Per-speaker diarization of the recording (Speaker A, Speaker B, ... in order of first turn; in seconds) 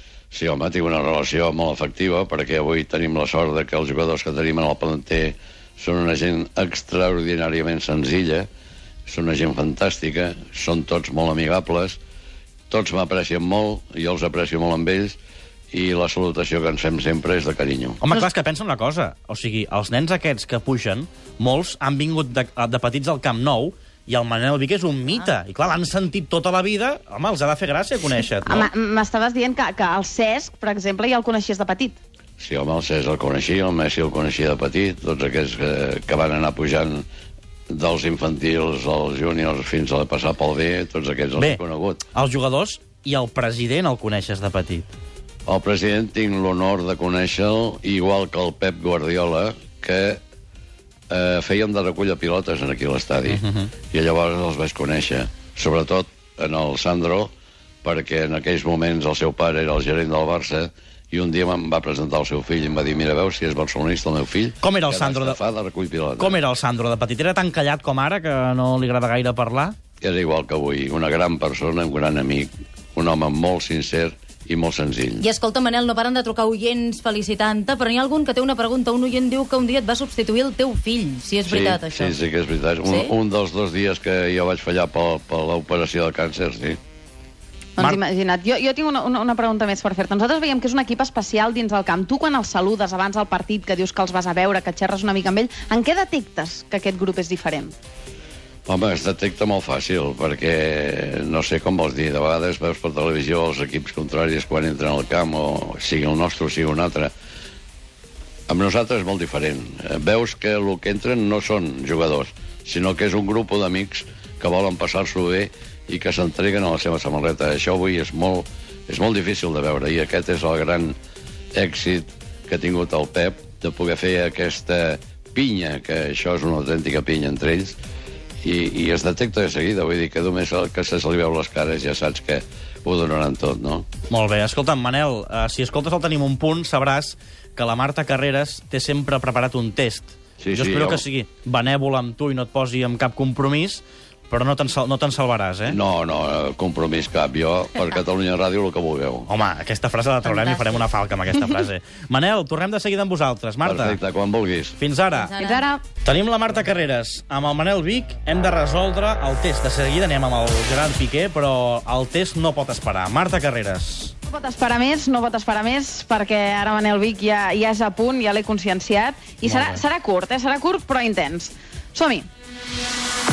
Speaker A: 0.3-8.5, 9.1-12.0, 12.7-15.2, 15.7-18.0, 32.4-37.1, 37.7-42.0, 45.5-50.2, 51.1-57.3, 57.8-66.4, 70.0-75.3, 81.5-86.8, 98.7-107.1, 108.5-121.0, 121.5-127.8, 128.4-133.9, 140.4-141.0, 145.7-149.3, 153.6-154.8
Speaker B: 18.0-28.7, 42.1-44.9, 53.3-53.7, 64.6-65.4, 66.2-69.8, 134.1-145.8, 149.3-154.0, 154.8-155.3, 156.0-164.1, 169.4-169.8
Speaker C: 28.4-32.0, 87.8-97.7, 155.4-155.8, 164.3-172.3
Speaker D: 75.2-82.2, 82.9-83.1, 155.1-155.7